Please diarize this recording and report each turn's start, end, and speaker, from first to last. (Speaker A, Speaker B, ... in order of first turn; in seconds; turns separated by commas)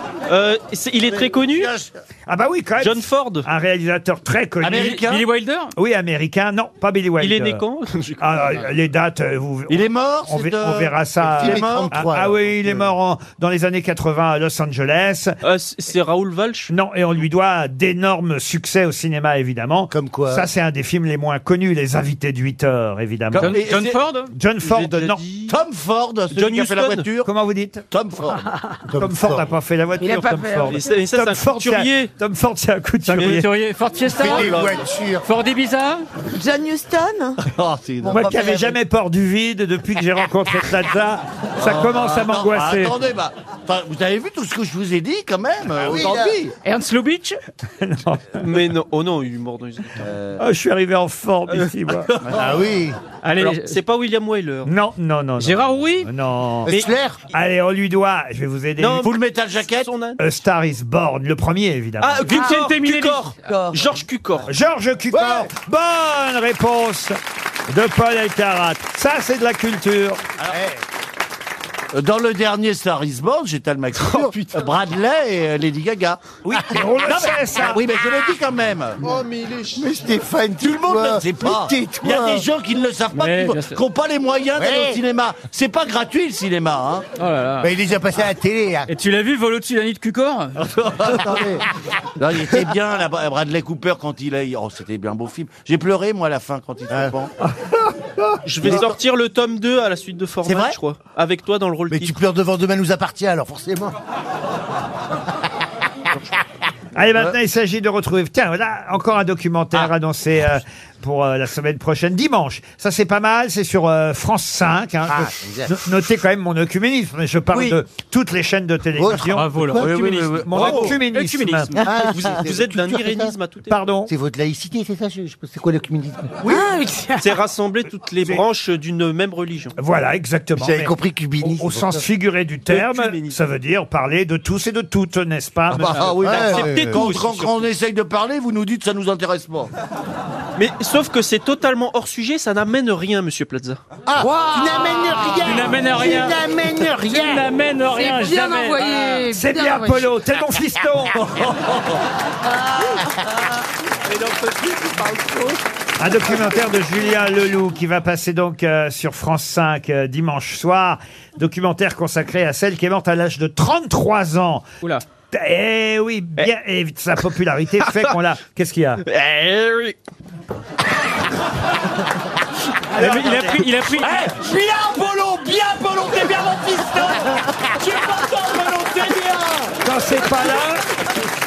Speaker A: 0.3-1.7, Speaker B: 1.5-1.9, Speaker C: 2.3-5.0, Speaker A: 2.8-3.5, Speaker B: 4.6-5.2, Speaker D: 4.8-5.7, Speaker C: 5.8-7.6, Speaker A: 7.2-8.7, Speaker C: 8.2-15.3, Speaker B: 9.7-11.9, Speaker E: 11.2-12.7, Speaker A: 15.4-16.7, Speaker C: 16.7-23.6, Speaker E: 19.9-20.4, Speaker D: 23.3-24.3, Speaker B: 23.5-24.0, Speaker C: 24.3-25.2, Speaker A: 24.6-25.6, Speaker B: 25.5-27.3, Speaker A: 26.3-27.1, Speaker C: 27.2-27.9, Speaker B: 27.9-28.5, Speaker E: 28.8-29.5, Speaker C: 29.0-33.5, Speaker F: 30.0-30.8, Speaker A: 30.7-32.1, Speaker D: 33.0-34.7, Speaker A: 33.1-33.5, Speaker E: 34.0-35.3, Speaker B: 34.3-34.7, Speaker D: 35.2-36.1, Speaker F: 36.2-37.4, Speaker B: 37.4-38.4, Speaker E: 38.0-38.7, Speaker C: 38.0-43.0, Speaker B: 41.6-46.5, Speaker E: 45.8-46.4, Speaker D: 46.6-47.4, Speaker C: 47.8-48.5, Speaker A: 48.4-50.0, Speaker B: 50.0-50.4, Speaker C: 50.4-52.1, Speaker B: 52.2-52.6, Speaker E: 52.3-53.0, Speaker D: 53.2-53.8, Speaker A: 53.4-54.7, Speaker C: 54.6-56.7, Speaker D: 55.4-56.1, Speaker E: 56.6-57.2, Speaker A: 56.7-56.9, Speaker C: 57.3-59.1, Speaker A: 58.8-60.2, Speaker B: 59.0-59.9, Speaker C: 60.2-62.5, Speaker A: 62.0-64.5, Speaker D: 62.3-63.6, Speaker F: 63.4-63.9, Speaker C: 64.4-67.2, Speaker E: 65.1-65.5, Speaker C: 67.7-70.2, Speaker E: 70.5-70.8, Speaker B: 71.9-76.2, Speaker A: 74.0-74.3, Speaker C: 76.4-77.8, Speaker E: 76.5-77.1, Speaker B: 77.0-79.0, Speaker A: 79.1-79.7, Speaker E: 79.2-82.5, Speaker B: 80.6-87.1, Speaker D: 83.1-83.8, Speaker E: 84.5-85.0, Speaker D: 87.2-87.7, Speaker E: 87.6-88.9, Speaker D: 88.9-90.6, Speaker B: 90.6-97.3, Speaker E: 91.2-91.6, Speaker A: 98.4-102.2, Speaker B: 98.6-99.0, Speaker B: 100.5-100.7, Speaker E: 101.9-104.0, Speaker C: 106.9-121.7, Speaker E: 115.1-116.0, Speaker E: 117.5-117.8, Speaker E: 119.0-120.4, Speaker D: 119.3-121.7, Speaker A: 120.5-123.8, Speaker E: 121.8-123.3, Speaker C: 123.7-124.1, Speaker E: 124.1-126.7, Speaker F: 126.5-127.3, Speaker A: 127.2-129.7, Speaker C: 129.8-136.2, Speaker E: 130.6-132.1, Speaker A: 132.7-133.4, Speaker B: 135.7-139.7, Speaker E: 136.2-137.0, Speaker A: 136.3-137.7, Speaker A: 140.6-143.8, Speaker E: 144.1-147.4, Speaker D: 144.2-149.2, Speaker F: 144.8-145.3, Speaker F: 147.9-150.1, Speaker C: 149.2-151.2, Speaker B: 151.2-152.0, Speaker F: 152.5-153.2, Speaker A: 154.0-155.6, Speaker C: 156.0-164.7, Speaker C: 165.3-169.0, Speaker A: 167.8-168.1, Speaker A: 169.0-170.0, Speaker C: 172.9-173.6, Speaker D: 172.9-174.3, Speaker A: 173.0-173.6, Speaker B: 173.9-179.8, Speaker C: 179.8-180.8